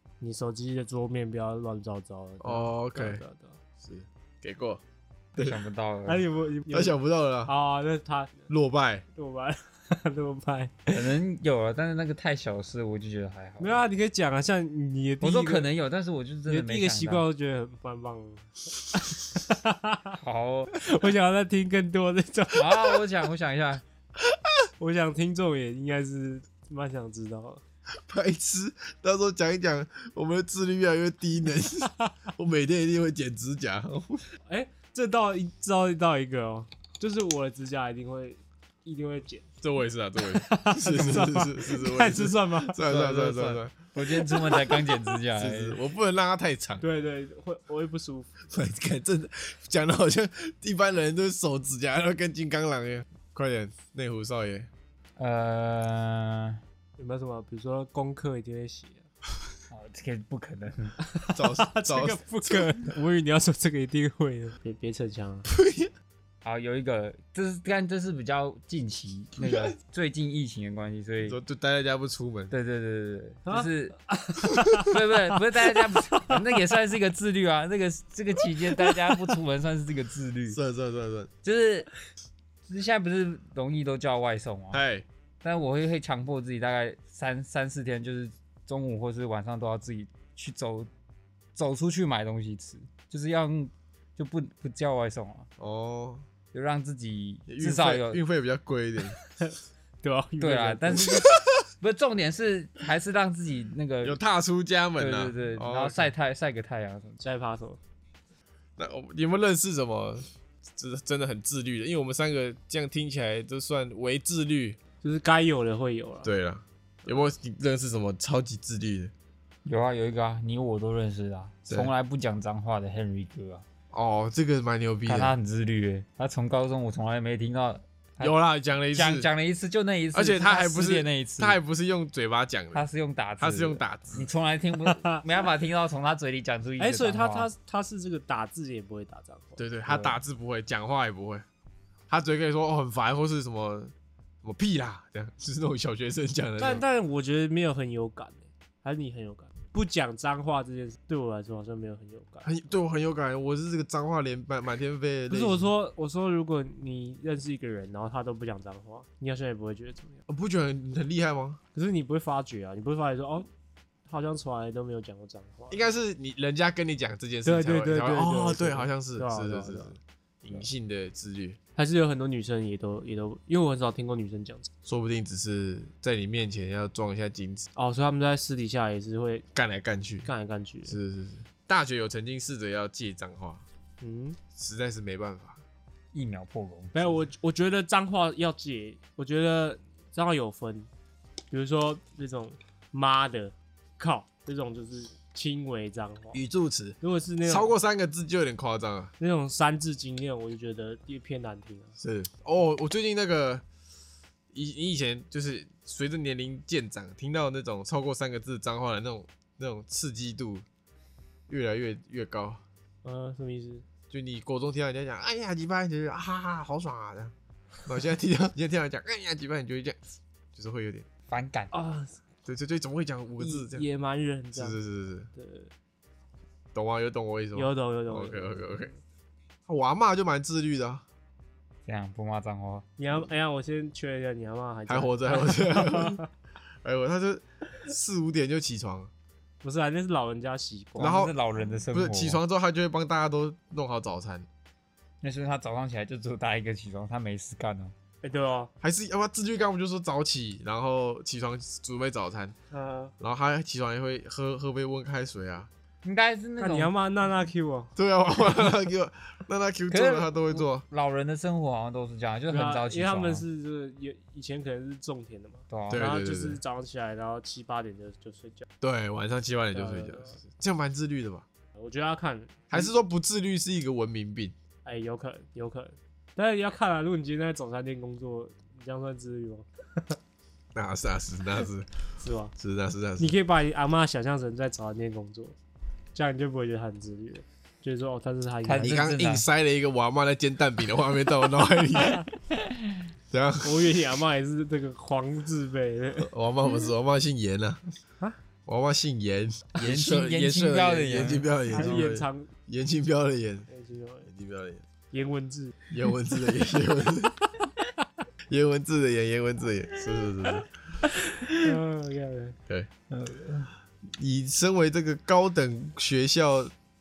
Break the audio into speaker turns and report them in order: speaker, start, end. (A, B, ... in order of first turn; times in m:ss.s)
0:00.2-0:03.6 A
0:02.4-0:03.2 B
0:03.8-0:04.8 B
0:05.4-0:06.2 C
0:06.1-0:08.5 A
0:06.7-0:07.5 B
0:08.5-0:09.0 B
0:09.1-0:11.0 A
0:10.9-0:13.8 C
0:13.6-0:15.7 A
0:15.2-0:17.3 C
0:16.5-0:20.2 A
0:20.2-0:20.8 C
0:20.8-0:23.0 A
0:22.6-0:23.8 C
0:24.8-0:27.6 A
0:28.1-0:34.3 B
0:34.5-0:39.5 A
0:39.6-0:43.7 B
0:40.3-0:42.8 A
0:42.8-0:45.8 C
0:45.4-0:46.8 B
0:46.8-0:48.4 A
0:48.5-0:54.7 B
0:55.2-0:56.6 C
0:57.0-0:59.0 A
0:59.7-1:01.0 C
1:01.0-1:05.5 A
1:01.3-1:02.7 B
1:05.5-1:05.9 B
1:06.4-1:11.4 C
1:09.4-1:09.7 B
1:11.2-1:12.5 B
1:12.5-1:14.0 C
1:13.5-1:15.0 A
1:14.8-1:20.6 C
1:20.5-1:21.3 B
1:21.4-1:21.9 C
1:22.7-1:24.8 C
1:24.7-1:25.0 B
1:25.4-1:30.9 C
1:31.6-1:35.5 C
1:35.6-1:36.2 B
1:36.5-1:38.2 C
1:37.5-1:39.2 B
1:39.4-1:41.3 A
1:40.4-1:44.2 C
1:44.0-1:46.1 B
1:45.0-1:47.2 C
1:47.2-1:47.8 A
1:48.8-1:54.8 B
1:55.0-1:56.3 A
1:56.2-1:59.1 B
1:59.6-2:03.6 C
2:03.9-2:05.4 B
2:05.1-2:08.4 C
2:08.2-2:09.3 B
2:08.9-2:11.6 C
2:10.1-2:12.8 B
2:12.7-2:17.5 C
2:13.4-2:14.3 B
2:14.8-2:15.2 A
2:16.8-2:19.6 A
2:19.6-2:21.4 B
2:19.9-2:20.2 C
2:22.1-2:26.8 B
2:26.6-2:32.5 A
2:32.4-2:35.7 B
2:35.3-2:40.2 A
2:40.3-2:41.6 B
2:41.8-2:43.5 A
2:44.1-2:45.9 A
2:45.7-2:51.6 B
2:47.4-2:49.9 A
2:51.8-2:54.7 A
2:54.9-2:57.7 B
2:57.8-2:59.4 A
2:59.6-3:00.3 B
3:00.3-3:01.0 A
3:00.9-3:03.6 B
3:04.0-3:04.4 A
3:04.6-3:05.6 B
3:06.1-3:07.2 C
3:06.9-3:10.9 A
3:11.5-3:16.4 A
3:16.3-3:19.1 B
3:17.0-3:17.7 A
3:19.2-3:22.0 A
3:22.0-3:23.6 B
3:24.5-3:30.6 B
3:31.5-3:32.6 B
3:33.0-3:33.8 A
3:34.1-3:37.3 B
3:37.8-3:40.0 B
3:40.6-3:41.1 B
3:41.3-3:41.7 C
3:41.7-3:42.2 A
3:42.5-3:43.9 B
3:43.4-3:44.8 A
3:44.6-3:45.3 B
3:45.4-3:45.7 A
3:46.7-3:48.9 B
3:47.6-3:49.0 A
3:49.7-3:51.0 B
3:51.9-3:52.9 C
3:53.0-3:56.3 A
3:54.9-3:56.2 B
3:56.8-3:59.1 B
3:59.6-4:01.2 A
4:01.0-4:02.4 C
4:01.0-4:01.4 B
4:01.9-4:04.5 B
4:05.2-4:07.9 C
4:08.2-4:08.7 A
4:08.8-4:12.6 B
4:12.7-4:13.1 A
4:13.2-4:15.7 B
4:16.0-4:16.9 C
4:16.6-4:17.9 A
4:18.0-4:20.8 B
4:19.9-4:23.4 C
4:22.5-4:28.7 A
4:25.7-4:26.1 C
4:25.9-4:26.6 B
4:28.8-4:31.4 B
4:29.7-4:30.4 A
4:31.8-4:32.9 A
4:32.7-4:34.5 B
4:34.8-4:40.2 A
4:40.8-4:41.9 B
4:42.2-4:42.5 A
4:42.6-4:43.3 B
4:43.2-4:45.6 A
4:46.2-4:49.0 A
4:48.6-4:49.5 C
4:48.8-4:52.2 B
4:52.2-4:53.1 C
4:53.3-4:54.0 B
4:53.6-4:56.3 A
4:56.2-4:57.8 B
4:58.7-5:03.7 B
4:59.8-5:02.1 C
5:01.7-5:02.5 A
5:03.7-5:04.3 A
5:04.3-5:04.8 B
5:05.1-5:05.8 A
5:05.9-5:07.4 B
5:08.5-5:10.7 B
5:11.1-5:12.6 A
5:13.1-5:13.7 C
5:14.2-5:16.7 B